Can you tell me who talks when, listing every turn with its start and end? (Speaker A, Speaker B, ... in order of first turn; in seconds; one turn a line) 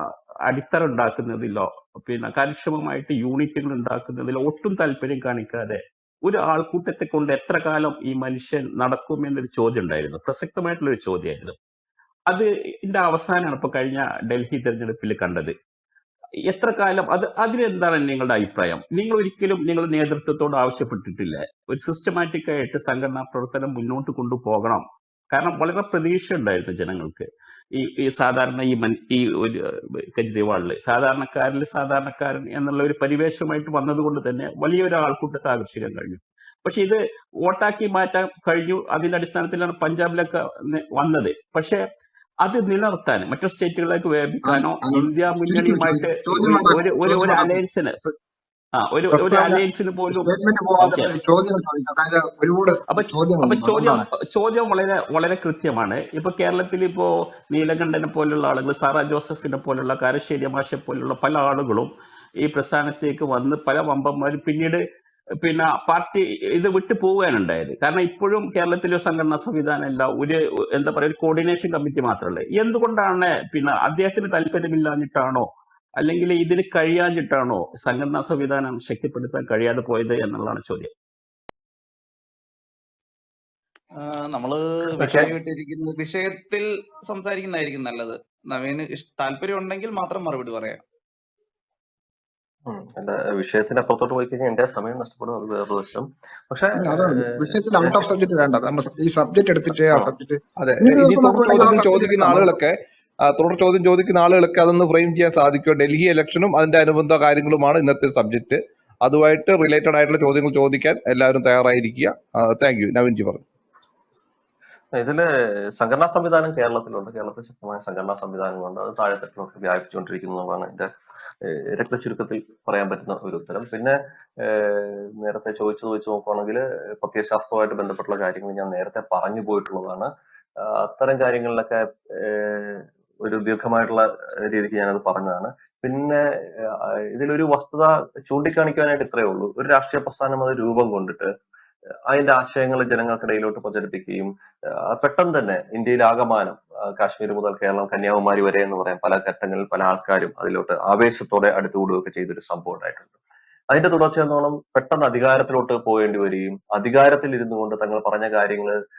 Speaker A: 0.5-11.6
Speaker A: 12.3-15.5
Speaker A: 16.5-29.6
Speaker A: 30.2-41.8
Speaker A: 42.4-48.1
Speaker B: 44.4-47.6
Speaker A: 48.8-51.1
Speaker B: 49.1-54.0
Speaker A: 52.9-61.9
Speaker A: 62.4-64.8
Speaker A: 65.4-75.5
Speaker A: 76.0-80.9
Speaker C: 85.0-85.3
Speaker D: 85.4-86.5
Speaker D: 88.7-90.4
Speaker C: 92.7-98.1
Speaker B: 96.8-102.5
Speaker E: 100.6-102.8
Speaker E: 103.3-113.4
Speaker C: 114.9-120.9
Speaker C: 121.4-141.3
Speaker C: 142.1-144.3
Speaker C: 144.9-153.1
Speaker C: 153.7-158.8